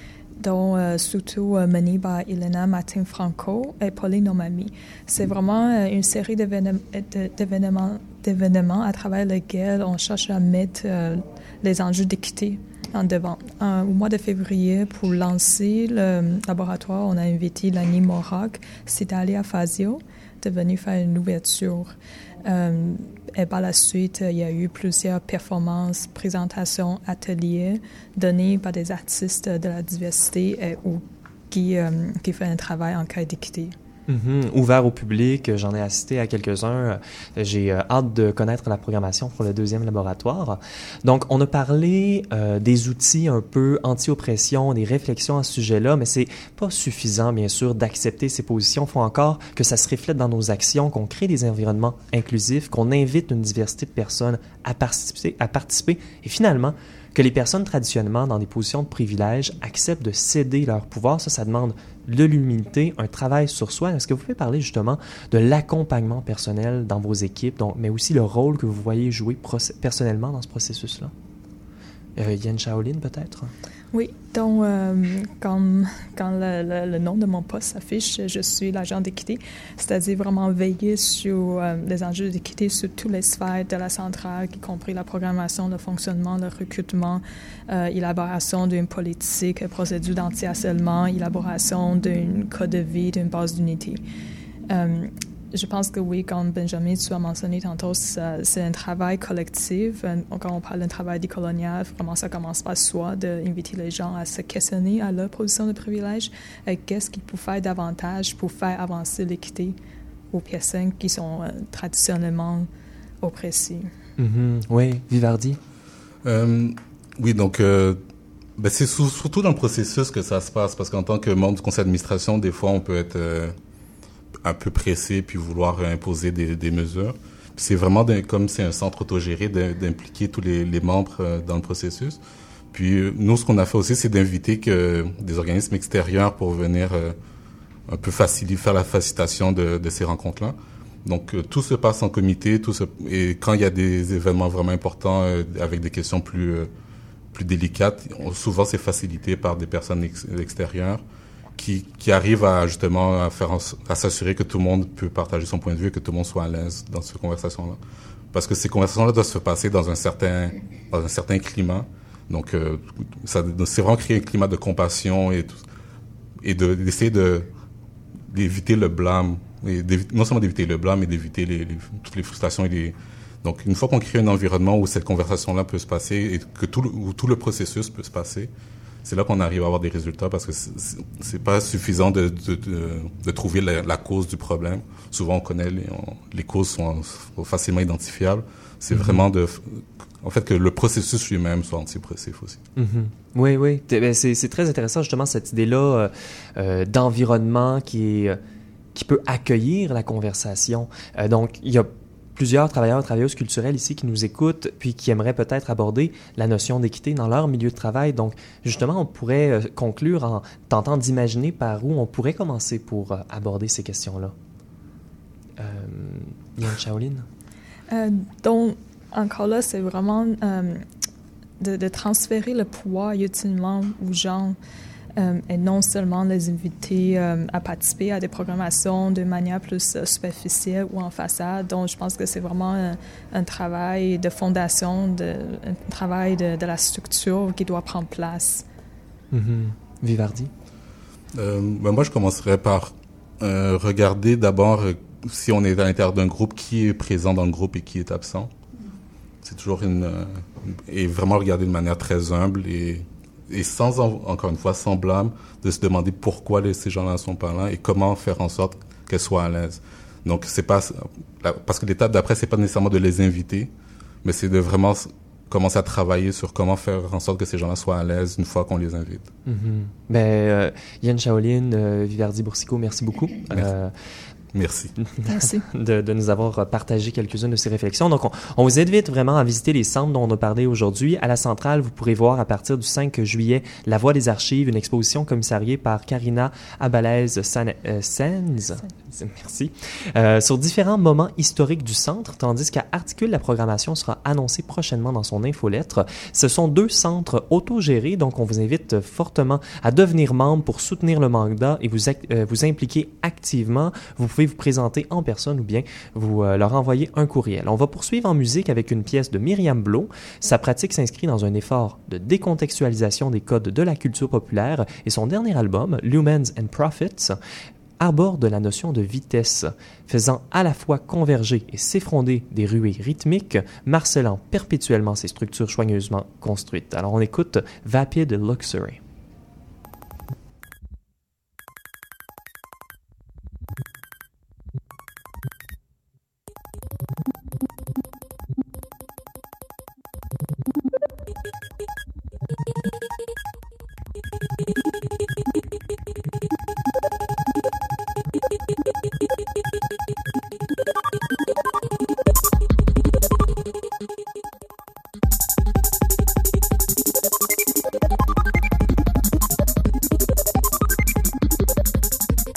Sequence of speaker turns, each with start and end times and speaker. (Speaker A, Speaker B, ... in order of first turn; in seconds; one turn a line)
Speaker A: 0.4-33.7
Speaker B: 34.1-71.1
Speaker B: 72.2-73.5
Speaker A: 73.9-94.0
Speaker A: 94.7-109.8
Speaker A: 110.3-112.7
Speaker A: 113.2-113.9
Speaker B: 114.2-115.6
Speaker C: 116.2-118.0
Speaker C: 118.6-123.5
Speaker C: 124.4-132.2
Speaker C: 132.7-137.2
Speaker C: 137.9-146.7
Speaker C: 147.3-151.0
Speaker C: 151.6-157.8
Speaker C: 158.3-165.6
Speaker C: 166.4-167.5
Speaker C: 168.3-178.5
Speaker C: 179.0-192.6
Speaker B: 188.9-189.2
Speaker B: 192.8-198.4
Speaker B: 198.9-214.3
Speaker B: 215.6-217.3
Speaker A: 217.9-220.8
Speaker A: 221.6-224.6
Speaker A: 225.2-238.6
Speaker B: 239.3-240.5
Speaker C: 241.3-248.5
Speaker C: 249.4-263.7
Speaker C: 264.2-269.3
Speaker B: 269.4-273.9
Speaker C: 274.5-274.9
Speaker B: 275.2-317.4
Speaker A: 275.3-275.6
Speaker B: 318.0-329.0